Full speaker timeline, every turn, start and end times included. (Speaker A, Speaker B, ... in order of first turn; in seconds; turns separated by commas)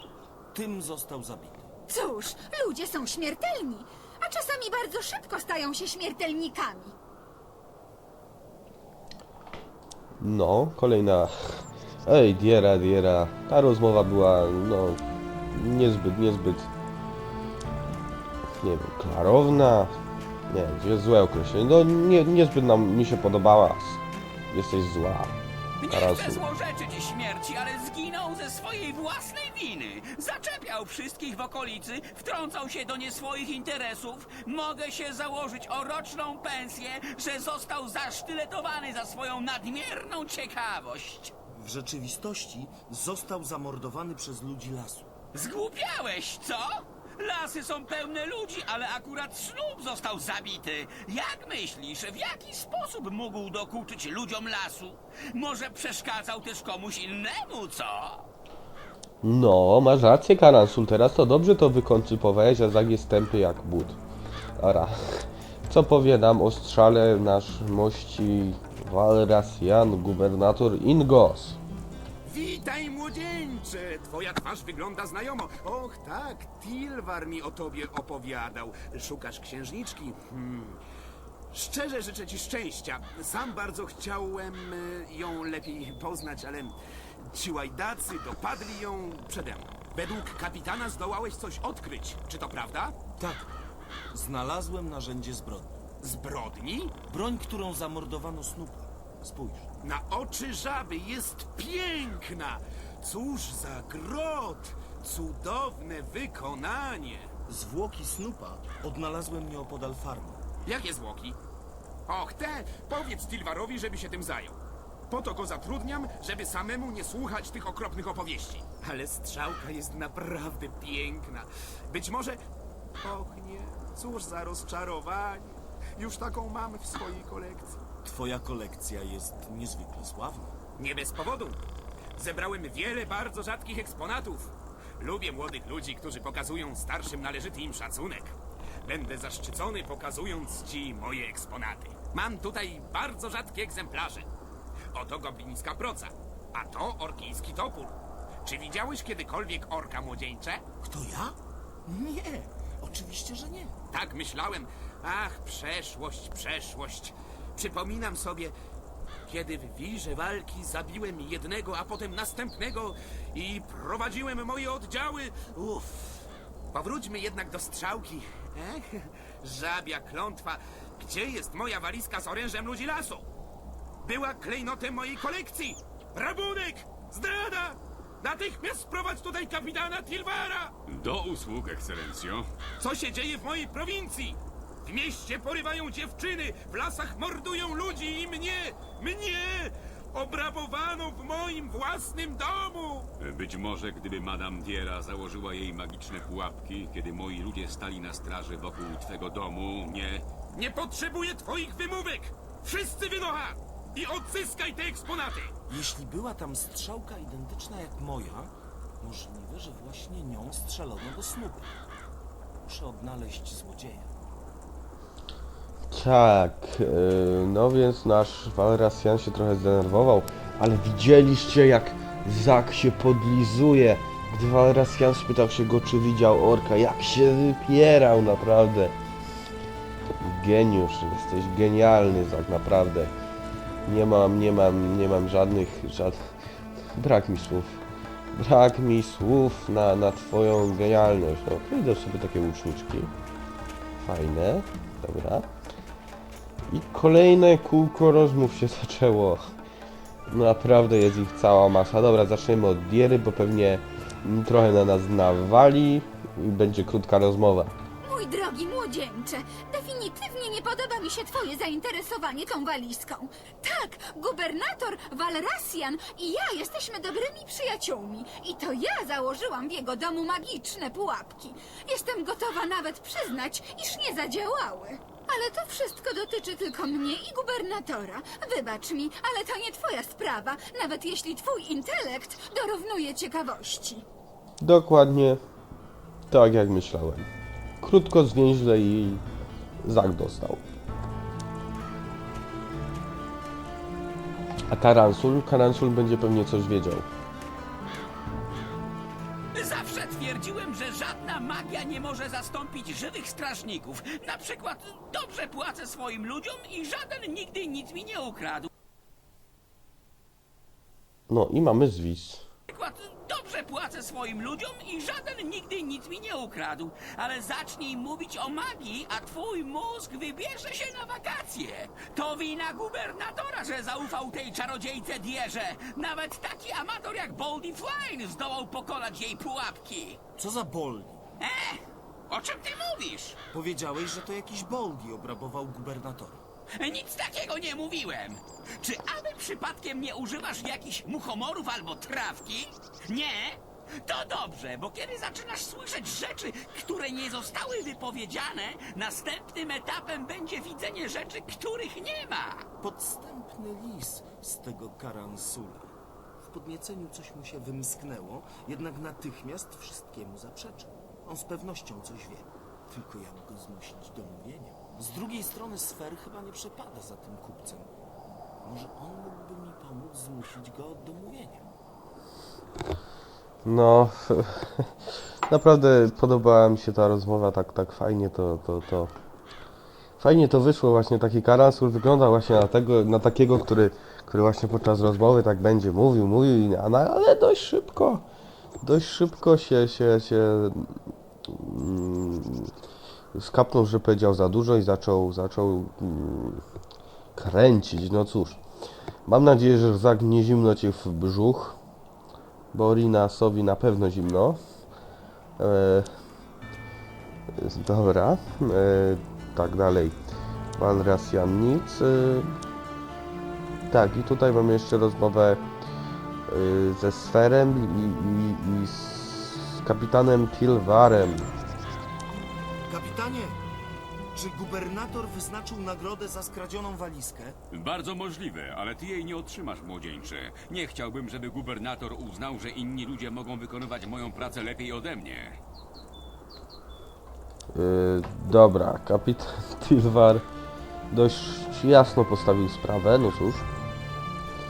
Speaker A: 0.5-1.7, Speaker B: 1.9-7.0, Speaker C: 10.2-16.7, Speaker C: 18.6-19.9, Speaker C: 20.5-25.4, Speaker D: 25.8-41.3, Speaker C: 25.9-26.4, Speaker A: 41.5-45.1, Speaker D: 45.3-58.3, Speaker C: 59.2-64.0, Speaker C: 64.6-71.6, Speaker E: 72.3-80.8, Speaker E: 81.5-92.9, Speaker A: 93.2-93.5, Speaker A: 94.1-95.8, Speaker E: 96.2-96.9, Speaker A: 97.1-99.7, Speaker E: 99.8-107.3, Speaker A: 107.5-110.5, Speaker E: 110.7-111.4, Speaker E: 112.1-122.4, Speaker E: 123.0-127.8, Speaker A: 128.0-130.6, Speaker E: 130.8-131.6, Speaker E: 132.2-138.3, Speaker E: 138.8-144.3, Speaker E: 144.9-150.6, Speaker A: 150.8-153.8, Speaker E: 153.9-158.5, Speaker E: 159.3-173.3, Speaker E: 174.0-180.7, Speaker F: 180.9-182.5, Speaker E: 182.8-193.1, Speaker F: 193.2-200.3, Speaker E: 200.5-205.5, Speaker A: 205.7-211.8, Speaker A: 212.6-214.1, Speaker C: 215.9-228.9, Speaker C: 230.2-233.1, Speaker C: 233.8-236.3, Speaker C: 236.9-237.8, Speaker C: 238.3-243.1, Speaker C: 244.0-245.5, Speaker C: 246.7-249.5, Speaker C: 250.3-257.7, Speaker B: 258.0-284.1, Speaker C: 284.6-285.4, Speaker C: 286.3-287.3, Speaker C: 287.8-289.2, Speaker C: 289.8-290.6, Speaker C: 294.7-297.1, Speaker D: 299.5-308.7, Speaker C: 311.3-312.5, Speaker D: 312.7-330.2, Speaker A: 330.4-331.3, Speaker D: 331.4-333.4, Speaker A: 333.5-336.4, Speaker D: 336.8-352.7, Speaker A: 352.8-367.9, Speaker A: 368.6-371.7, Speaker C: 373.6-374.9, Speaker C: 375.5-379.1, Speaker C: 380.2-388.2, Speaker C: 388.8-390.9, Speaker C: 391.5-392.7, Speaker C: 393.3-396.6, Speaker C: 397.4-398.6, Speaker C: 399.3-401.8, Speaker C: 402.7-404.6, Speaker C: 405.6-406.1, Speaker C: 407.6-410.2, Speaker C: 410.8-412.5, Speaker C: 413.9-415.6, Speaker C: 416.5-421.5, Speaker A: 422.9-423.6, Speaker A: 424.3-427.6, Speaker F: 427.7-435.6, Speaker C: 437.8-440.4, Speaker C: 441.1-443.7